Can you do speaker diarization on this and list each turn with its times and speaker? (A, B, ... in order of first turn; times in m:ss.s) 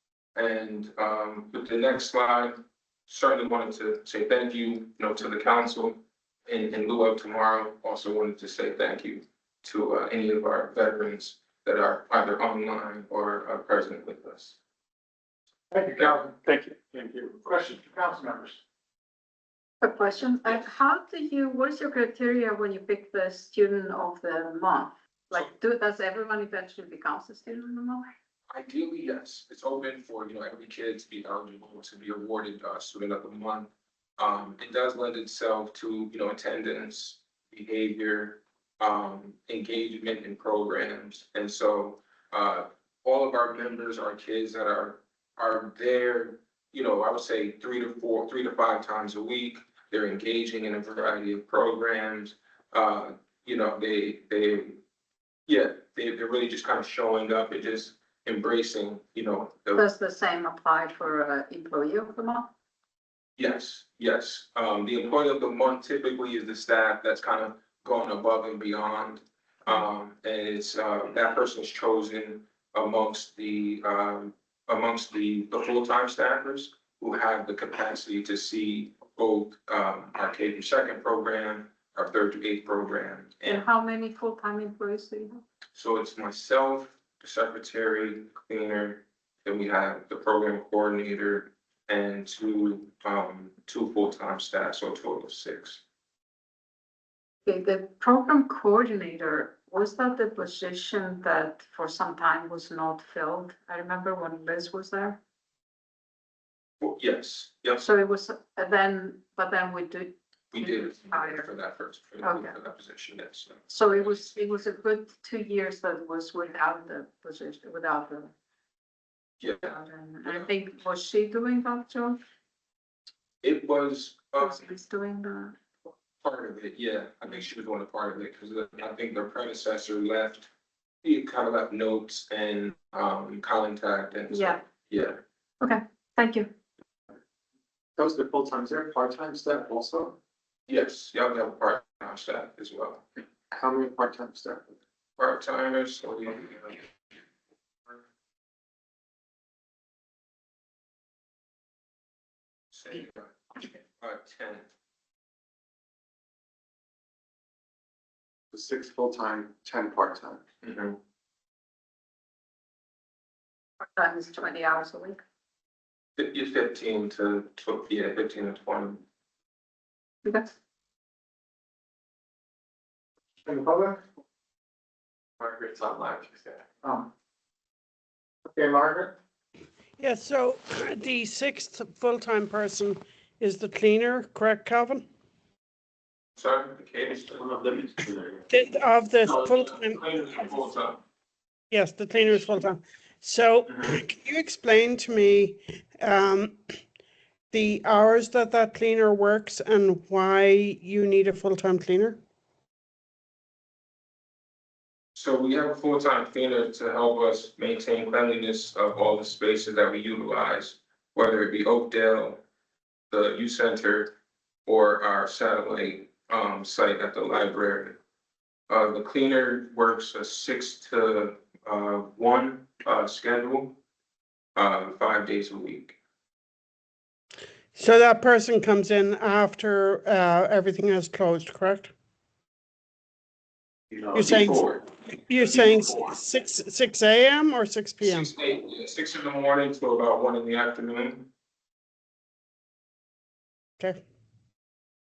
0:00.3-0:14.6 A
0:15.7-0:18.6 B
0:19.8-0:28.1 C
0:28.5-0:54.8 A
0:55.5-0:59.8 A
0:59.8-1:02.5 C
1:03.4-1:23.6 A
1:23.4-1:25.4 C
1:25.7-1:35.8 A
1:37.4-1:45.2 C
1:46.8-1:47.8 A
1:47.8-1:51.5 C
1:50.5-1:54.2 A
1:52.2-1:52.5 C
1:53.7-1:58.3 C
1:59.4-2:00.5 A
1:59.6-2:02.2 C
2:03.4-2:04.7 A
2:04.4-2:05.6 C
2:06.2-2:10.5 A
2:11.0-2:15.2 A
2:14.3-2:14.6 C
2:15.6-2:16.5 C
2:18.0-2:20.2 B
2:20.7-2:23.0 A
2:23.5-2:24.8 B
2:25.2-2:26.8 A
2:32.7-2:34.7 A
2:38.5-2:40.4 B
2:40.6-2:41.0 A
2:44.0-2:45.2 C
2:46.2-2:49.0 A
2:50.2-2:50.5 C
2:53.4-2:54.0 B
2:55.4-2:57.1 B
2:58.5-2:59.1 B
3:00.0-3:05.0 D
3:06.4-3:07.4 A
3:07.3-3:08.4 B
3:08.5-3:10.5 D
3:09.2-3:11.0 A
3:11.7-3:16.6 D
3:13.7-3:14.0 A
3:17.5-3:22.2 D
3:25.1-3:32.4 A
3:33.1-3:34.1 A
3:34.6-3:38.0 A
3:38.7-3:43.8 A
3:44.6-3:46.0 A
3:47.7-3:51.9 D
3:53.9-3:54.8 A
3:54.1-3:58.3 D
3:55.5-3:56.1 A
3:58.0-4:01.3 A